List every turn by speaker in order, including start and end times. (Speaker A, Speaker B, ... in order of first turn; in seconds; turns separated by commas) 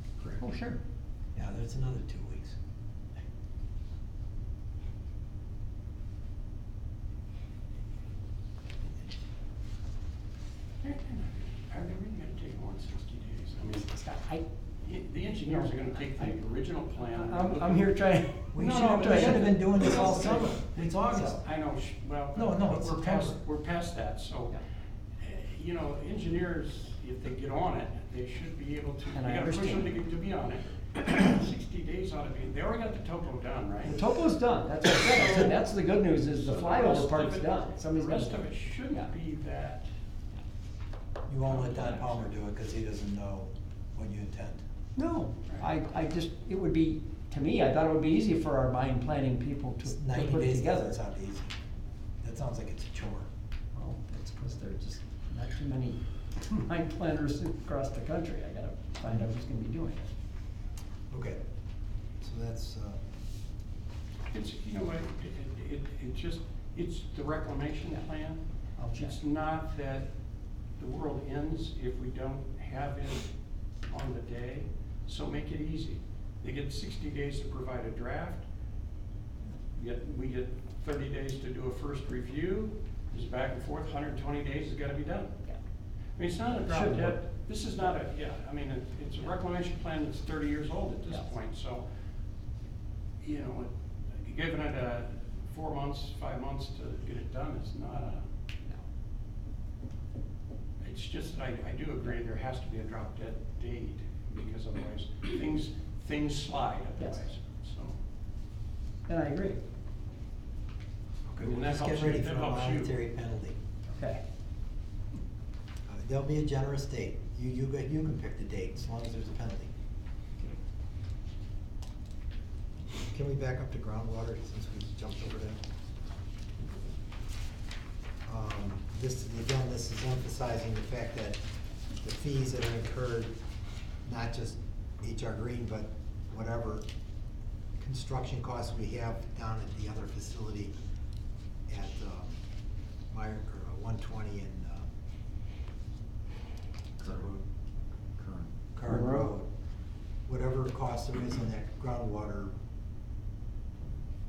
Speaker A: 0.4-0.8, Speaker B: 1.3-2.6, Speaker C: 10.8-13.9, Speaker A: 13.8-14.4, Speaker C: 14.8-17.9, Speaker A: 15.5-16.3, Speaker A: 17.0-20.5, Speaker B: 18.5-21.4, Speaker C: 18.5-24.6, Speaker B: 22.4-23.4, Speaker C: 25.2-34.0, Speaker A: 29.1-29.9, Speaker A: 33.9-39.1, Speaker C: 35.0-35.6, Speaker C: 36.2-39.9, Speaker B: 41.3-44.6, Speaker C: 41.5-42.3, Speaker A: 45.0-51.0, Speaker B: 49.9-51.5, Speaker B: 52.2-53.3, Speaker A: 53.7-60.1, Speaker B: 61.1-61.4, Speaker B: 62.2-63.0, Speaker C: 64.3-68.4, Speaker A: 68.8-69.2, Speaker C: 69.0-70.1, Speaker C: 70.8-73.3, Speaker C: 73.9-78.5, Speaker C: 79.7-85.4, Speaker C: 86.2-91.8, Speaker A: 86.5-87.2, Speaker C: 93.2-98.2, Speaker C: 100.8-108.0, Speaker A: 109.1-109.6, Speaker B: 111.3-113.6, Speaker C: 111.4-112.9, Speaker A: 113.9-114.2, Speaker B: 115.9-119.7, Speaker B: 123.1-125.6, Speaker B: 128.3-131.4, Speaker B: 132.0-133.3, Speaker B: 134.1-136.9, Speaker B: 137.8-140.7, Speaker B: 141.7-142.4, Speaker B: 143.1-144.9, Speaker B: 147.0-147.4, Speaker B: 148.2-149.5, Speaker A: 148.9-149.3, Speaker B: 150.3-152.5